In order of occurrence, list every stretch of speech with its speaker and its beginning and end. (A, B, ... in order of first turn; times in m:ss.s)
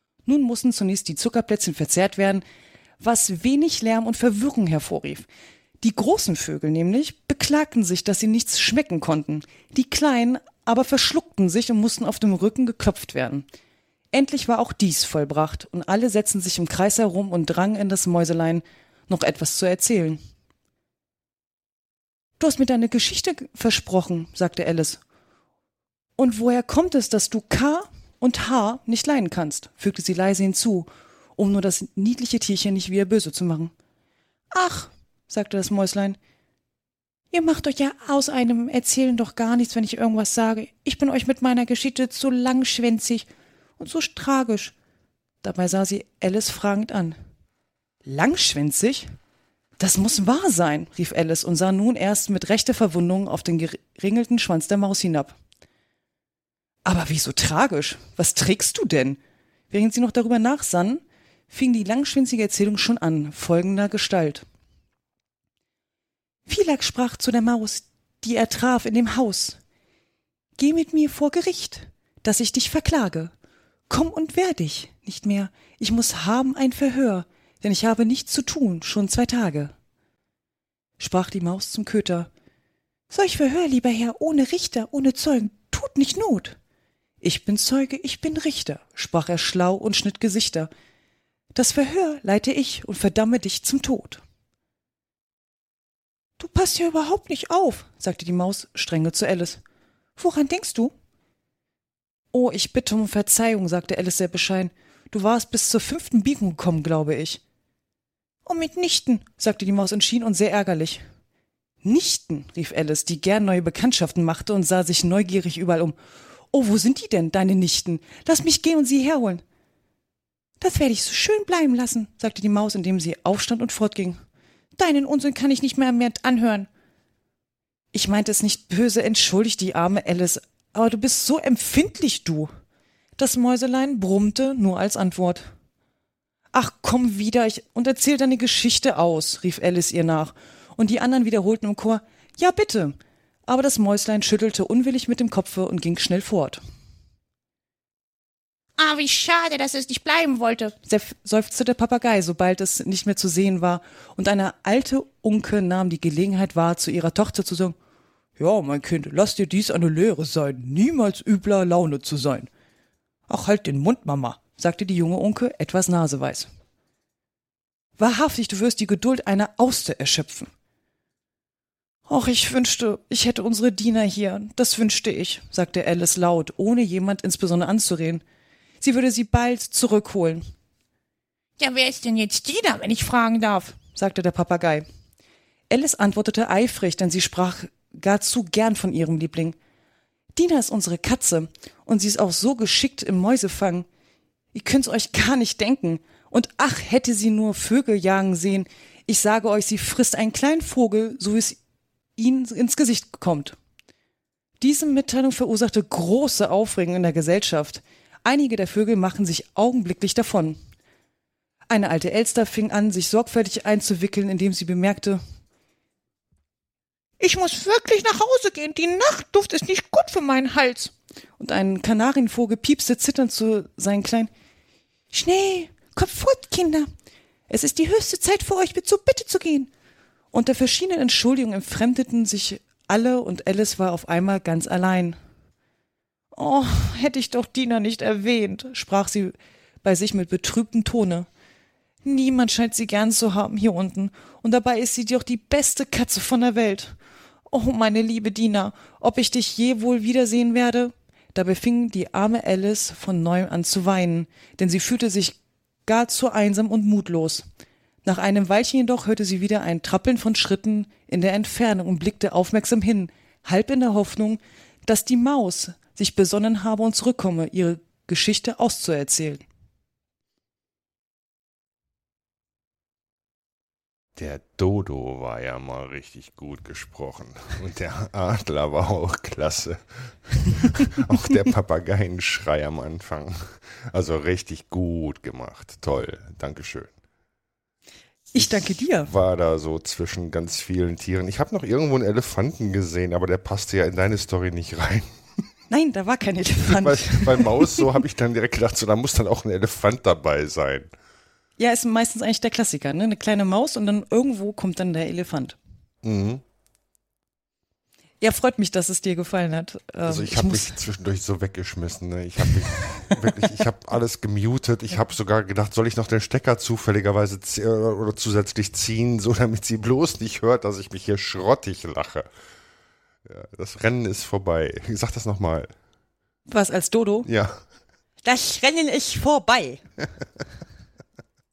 0:00.3-0:02.4 A
0:03.0-0:05.3 A
0:05.8-0:13.5 A
0:14.1-0:20.2 A
0:22.4-0:25.0 A
0:26.2-0:33.7 A
0:34.5-0:36.2 A
0:37.3-0:44.7 A
0:45.4-0:47.2 A
0:48.0-0:49.1 A
0:49.8-0:55.4 A
0:56.8-0:59.2 A
0:59.7-1:04.4 A
1:06.5-1:09.6 A
1:10.6-1:13.3 A
1:13.9-1:19.7 A
1:21.0-1:22.3 A
1:23.1-1:26.6 A
1:27.2-1:30.7 A
1:31.6-1:34.2 A
1:36.4-1:39.6 A
1:40.2-1:40.9 A
1:42.3-1:47.4 A
1:48.5-1:51.0 A
1:51.8-1:56.0 A
1:56.5-1:59.4 A
2:00.6-2:04.2 A
2:04.8-2:06.7 A
2:07.9-2:12.5 A
2:13.2-2:15.5 A
2:16.5-2:26.6 A
2:28.8-2:30.8 B
2:30.8-2:37.8 A
2:38.4-2:42.5 A
2:43.3-2:46.5 A
2:48.0-2:50.5 A
2:52.1-2:58.2 A
2:58.8-3:00.4 A
3:01.6-3:03.8 B
3:03.8-3:04.8 A
3:05.7-3:09.6 A
3:10.4-3:13.9 A
3:14.5-3:21.6 A
3:22.2-3:23.6 A
3:24.6-3:30.6 A
3:31.7-3:35.2 A
3:37.2-3:40.9 B
3:41.4-3:44.3 A
3:45.1-3:46.9 A
3:47.5-3:49.7 A
3:50.3-3:55.2 A
3:56.3-4:01.3 A
4:02.0-4:07.0 A
4:07.5-4:17.4 A
4:18.0-4:29.4 A
4:34.2-4:46.9 C
4:48.3-4:49.1 A
4:48.4-4:55.1 C
4:55.7-4:57.9 A
4:56.7-5:00.9 C
5:01.6-5:05.6 A
5:06.0-5:06.4 C
5:08.2-5:10.8 A
5:10.0-5:22.3 C
5:23.3-5:25.7 C
5:26.5-5:27.3 A
5:27.2-5:27.6 C
5:28.2-5:29.8 A